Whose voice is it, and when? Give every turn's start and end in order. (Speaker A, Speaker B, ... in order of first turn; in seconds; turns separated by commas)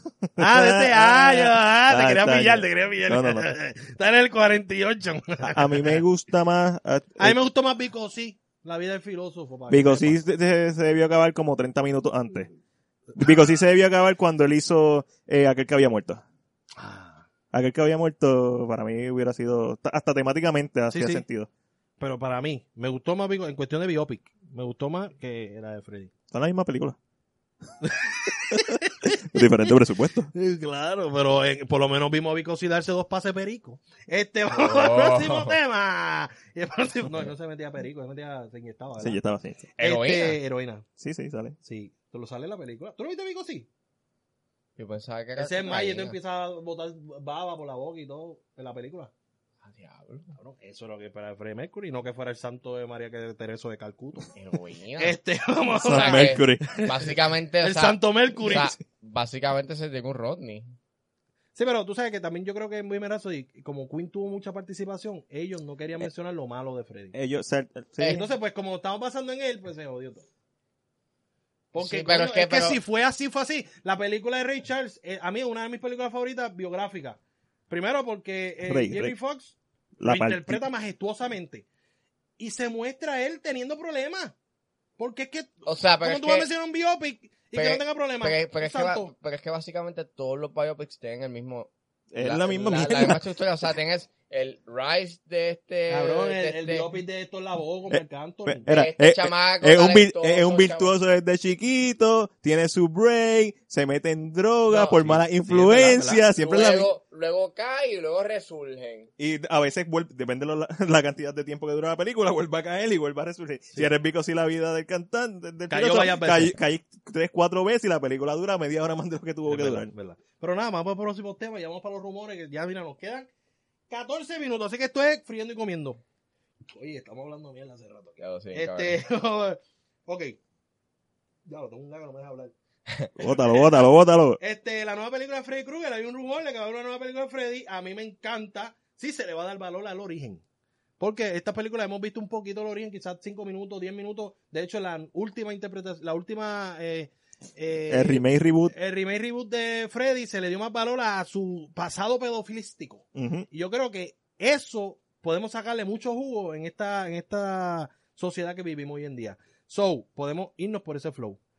Speaker A: 0.2-3.5, Speaker B: 0.4-6.0, Speaker A: 5.4-7.4, Speaker B: 7.2-10.2, Speaker A: 9.7-12.5, Speaker A: 13.2-16.2, Speaker B: 16.8-17.3, Speaker A: 17.5-21.5, Speaker B: 20.9-21.2, Speaker B: 22.0-26.1, Speaker A: 26.3-27.0, Speaker B: 27.8-29.7, Speaker A: 28.5-30.3, Speaker B: 30.3-39.2, Speaker C: 34.5-35.6, Speaker A: 39.0-39.7, Speaker C: 39.8-40.4, Speaker B: 39.8-40.8, Speaker A: 41.0-41.6, Speaker B: 41.6-43.7, Speaker C: 44.8-46.2, Speaker B: 45.4-49.1, Speaker C: 49.6-50.3, Speaker B: 50.4-54.3, Speaker C: 54.3-55.2, Speaker B: 55.0-58.7, Speaker A: 55.7-56.7, Speaker C: 55.9-60.7, Speaker B: 61.5-67.1, Speaker A: 67.1-68.2, Speaker C: 68.0-68.2, Speaker B: 68.0-70.2, Speaker B: 71.7-79.5, Speaker C: 71.8-72.8, Speaker A: 78.7-79.1, Speaker A: 80.0-80.6, Speaker B: 80.0-81.7, Speaker B: 82.4-84.3, Speaker B: 85.0-89.1, Speaker C: 85.7-86.5, Speaker C: 87.5-96.9, Speaker A: 92.1-93.2, Speaker B: 95.9-98.7, Speaker A: 97.9-106.9, Speaker C: 98.7-100.9, Speaker C: 104.7-105.2, Speaker B: 105.3-106.2, Speaker C: 106.3-109.1, Speaker A: 109.2-119.9, Speaker B: 115.7-116.5, Speaker B: 119.5-123.3, Speaker B: 123.9-126.0, Speaker B: 126.7-130.4, Speaker C: 128.2-129.0, Speaker B: 131.4-132.5, Speaker A: 133.2-134.4, Speaker B: 133.3-133.7, Speaker B: 134.4-140.4, Speaker B: 141.0-161.4, Speaker A: 147.9-148.7, Speaker A: 153.1-153.5